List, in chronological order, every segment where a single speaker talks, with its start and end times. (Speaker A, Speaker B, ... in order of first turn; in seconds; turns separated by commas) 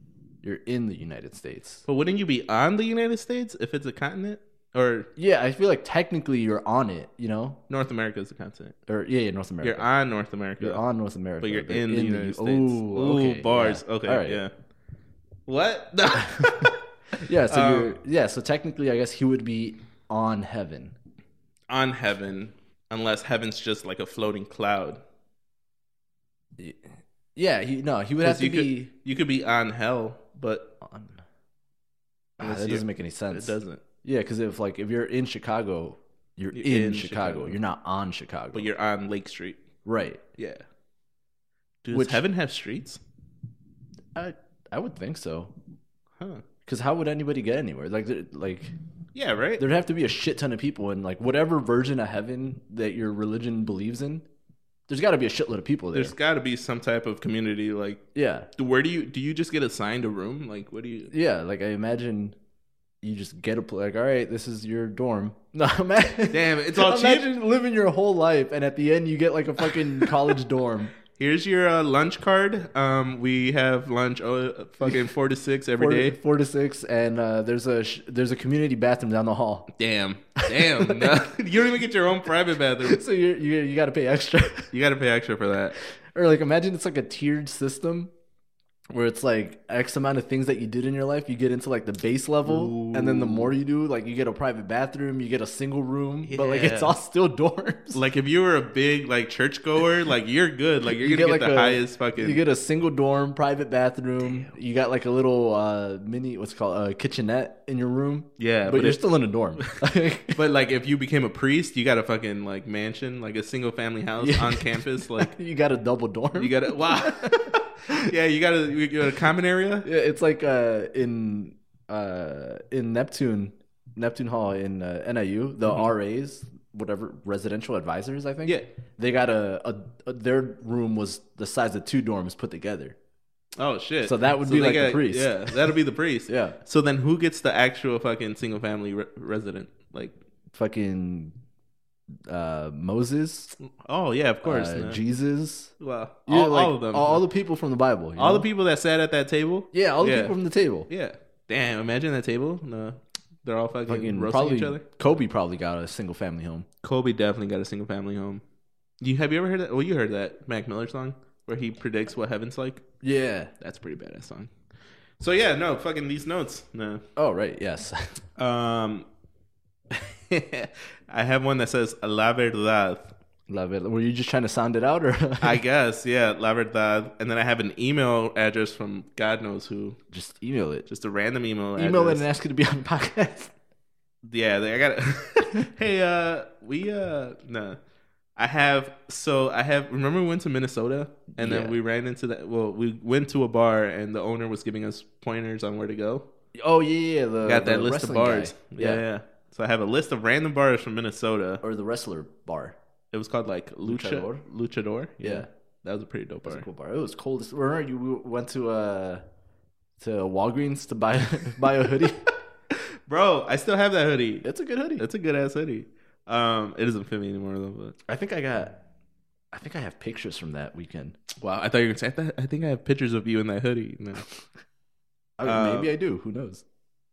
Speaker A: 0.4-1.9, Speaker B: 1.9-5.1, Speaker A: 5.2-7.6, Speaker B: 7.7-8.8, Speaker A: 8.9-9.9, Speaker B: 9.6-10.8, Speaker A: 10.6-14.4, Speaker B: 11.4-14.5, Speaker B: 15.4-16.8, Speaker A: 17.1-20.9, Speaker B: 17.5-17.9, Speaker B: 21.7-25.0, Speaker A: 26.6-28.9, Speaker B: 28.2-30.7, Speaker A: 30.8-31.2, Speaker A: 32.4-38.7, Speaker B: 32.4-33.8, Speaker B: 36.5-37.6, Speaker B: 38.5-39.6, Speaker A: 39.8-40.2, Speaker B: 40.4-40.6, Speaker B: 41.8-43.0, Speaker A: 41.9-42.2, Speaker A: 44.1-45.5, Speaker B: 46.2-46.4, Speaker A: 46.6-48.7, Speaker B: 49.1-49.6, Speaker A: 49.6-54.2, Speaker A: 54.9-56.1, Speaker B: 55.9-58.0, Speaker A: 58.1-58.5, Speaker B: 58.6-61.1, Speaker A: 61.1-62.4, Speaker A: 63.0-70.9, Speaker B: 66.3-67.3, Speaker B: 69.6-70.3, Speaker B: 71.1-76.2, Speaker A: 75.8-79.7, Speaker B: 79.8-83.0, Speaker A: 80.4-81.2, Speaker A: 82.8-84.7, Speaker B: 84.7-85.8, Speaker A: 85.8-88.1, Speaker A: 88.9-98.0, Speaker B: 92.4-93.5, Speaker B: 96.2-97.0, Speaker B: 97.9-102.4, Speaker A: 100.9-110.4, Speaker B: 104.2-104.5, Speaker B: 108.4-109.0, Speaker B: 110.3-115.3, Speaker A: 114.2-118.0, Speaker B: 116.3-119.9, Speaker A: 119.8-132.9, Speaker B: 133.6-140.2, Speaker A: 134.0-135.7, Speaker A: 136.3-136.6, Speaker A: 140.5-141.3, Speaker A: 142.3-143.5, Speaker B: 143.6-145.0, Speaker A: 144.4-145.7, Speaker B: 145.8-147.2, Speaker A: 146.2-148.5, Speaker B: 148.2-150.4, Speaker A: 149.7-150.9, Speaker B: 150.9-154.8, Speaker A: 153.9-156.7, Speaker B: 156.8-158.4, Speaker B: 159.0-162.8, Speaker A: 163.0-163.5, Speaker B: 163.6-164.5, Speaker B: 165.2-167.0, Speaker A: 167.2-168.2, Speaker B: 168.4-169.1, Speaker B: 169.9-173.1, Speaker A: 173.5-175.6, Speaker B: 175.4-180.0, Speaker A: 180.1-180.9, Speaker B: 180.9-182.2, Speaker A: 181.8-183.5, Speaker B: 184.2-187.8, Speaker B: 188.3-196.3, Speaker A: 191.3-191.8, Speaker A: 196.6-199.0, Speaker B: 197.4-201.6, Speaker A: 201.6-202.8, Speaker B: 203.1-206.7, Speaker A: 203.8-204.4, Speaker A: 205.2-205.5, Speaker A: 206.4-209.2, Speaker A: 210.0-212.2, Speaker B: 212.7-214.5, Speaker A: 214.4-215.0, Speaker B: 215.0-217.9, Speaker A: 218.1-218.8, Speaker A: 219.5-221.2, Speaker B: 221.3-224.2, Speaker A: 225.4-226.6, Speaker B: 225.4-225.9